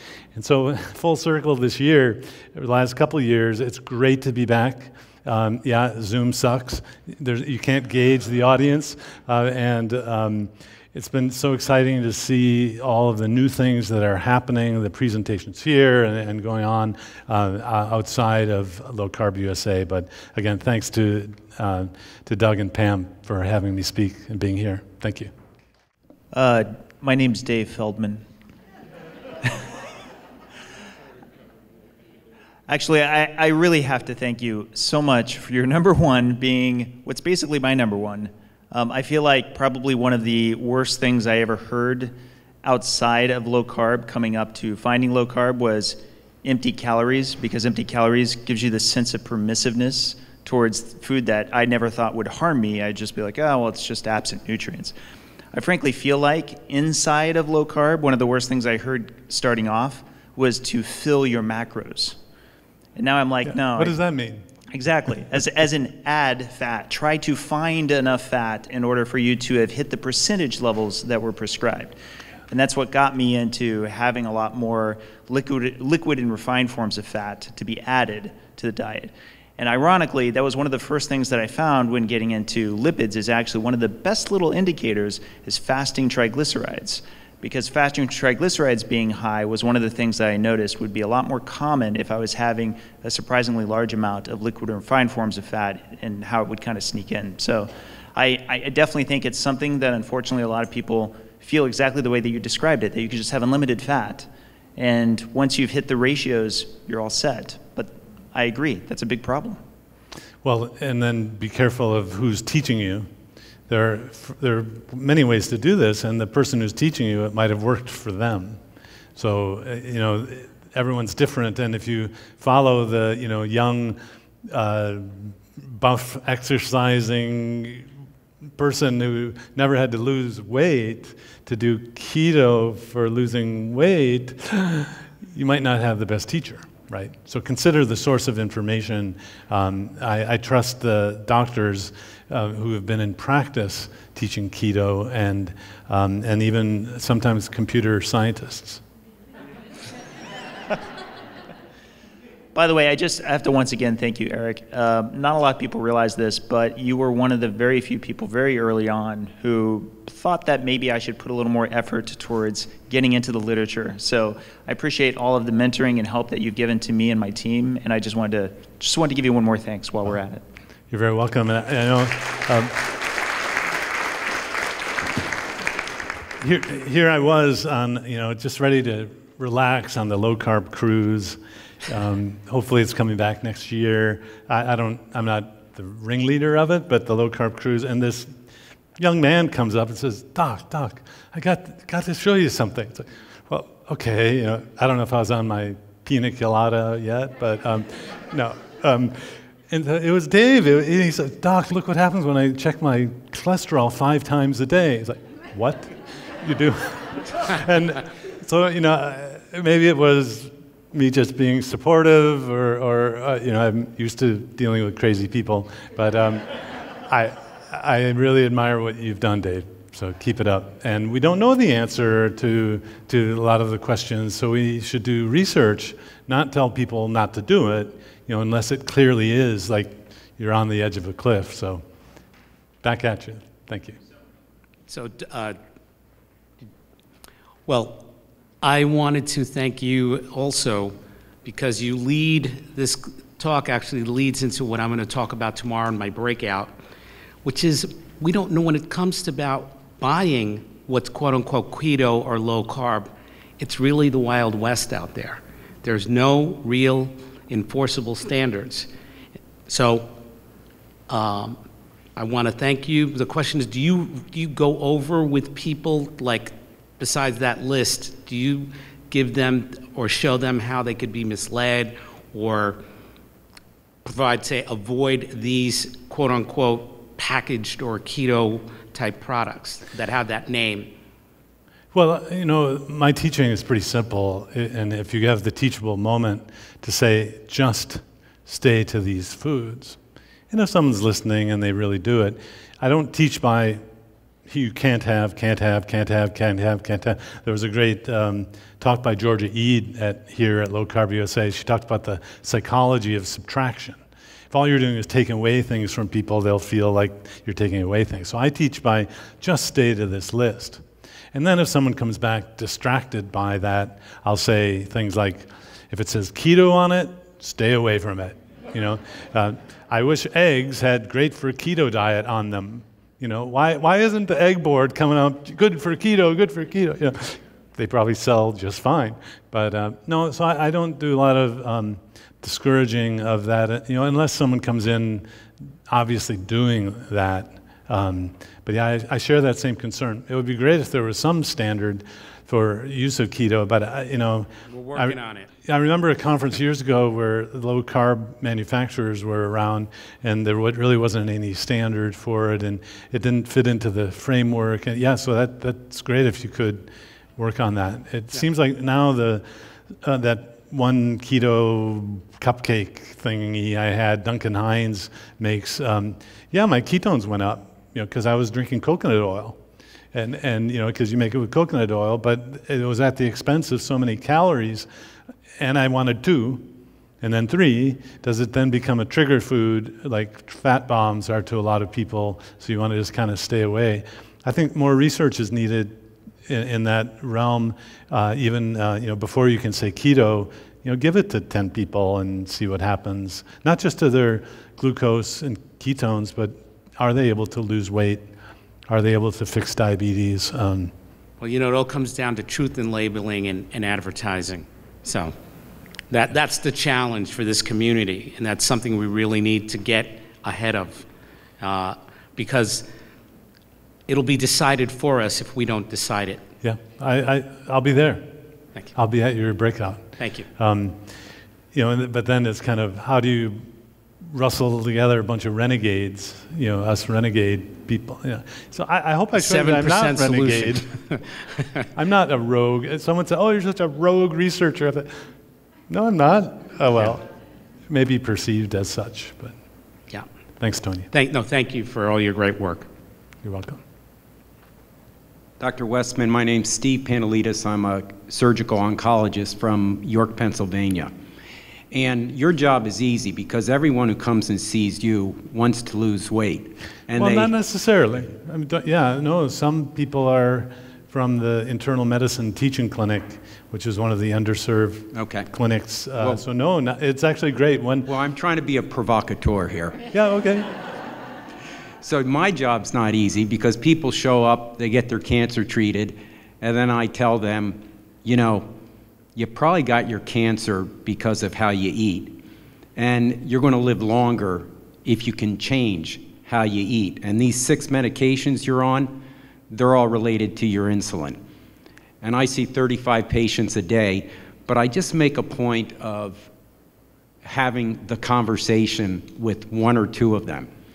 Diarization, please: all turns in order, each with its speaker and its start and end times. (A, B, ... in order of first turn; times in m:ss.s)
0:00.4-0:25.3 A
0:26.3-0:28.2 B
0:32.7-0:54.9 B
0:55.5-1:02.2 B
1:03.0-1:04.0 B
1:03.4-1:04.4 A
1:04.7-1:12.0 B
1:12.5-1:49.6 B
1:50.4-1:53.1 A
1:53.7-1:58.6 A
1:59.2-2:07.9 A
2:08.6-2:28.8 A
2:32.5-2:50.4 B
2:50.9-2:52.8 A
2:56.4-3:08.3 A
3:09.0-3:51.8 A
3:52.8-3:54.0 A
3:54.9-3:55.6 C
3:57.7-3:58.1 C
3:58.6-4:06.7 C
4:07.4-4:18.9 C
4:19.7-4:20.1 C
4:21.1-4:21.6 C
4:22.2-4:32.8 C
4:34.0-4:40.9 C
4:41.9-4:50.0 A
4:50.5-4:53.8 A
4:54.5-5:04.0 A
5:04.5-5:35.2 A
5:35.9-5:59.4 A
5:44.7-5:45.5 C
6:00.0-6:09.6 A
6:10.1-6:14.9 A
6:15.6-6:16.7 A
6:17.2-6:38.3 A
6:38.9-6:40.9 A
6:41.4-6:45.4 C
6:46.1-6:51.1 C
6:51.6-6:52.9 C
6:54.1-6:56.4 C
6:56.6-6:58.3 A
6:58.9-7:01.0 A
7:00.2-7:00.5 C
7:01.7-7:03.7 A
7:04.3-7:10.9 A
7:09.3-7:11.6 C
7:12.0-7:15.1 A
7:15.9-7:17.2 A
7:17.9-7:19.6 A
7:20.6-7:21.1 A
7:21.1-7:22.9 C
7:23.4-7:23.8 A
7:25.6-7:31.1 D
7:31.9-7:37.5 D
7:37.2-7:48.1 A
7:45.1-7:45.5 D
7:46.2-7:46.4 D
7:48.1-7:50.0 D
7:50.1-7:50.7 A
7:52.0-7:58.7 D
7:59.4-8:02.4 D
8:03.0-8:11.4 D
8:12.2-8:16.5 D
8:17.4-8:20.7 D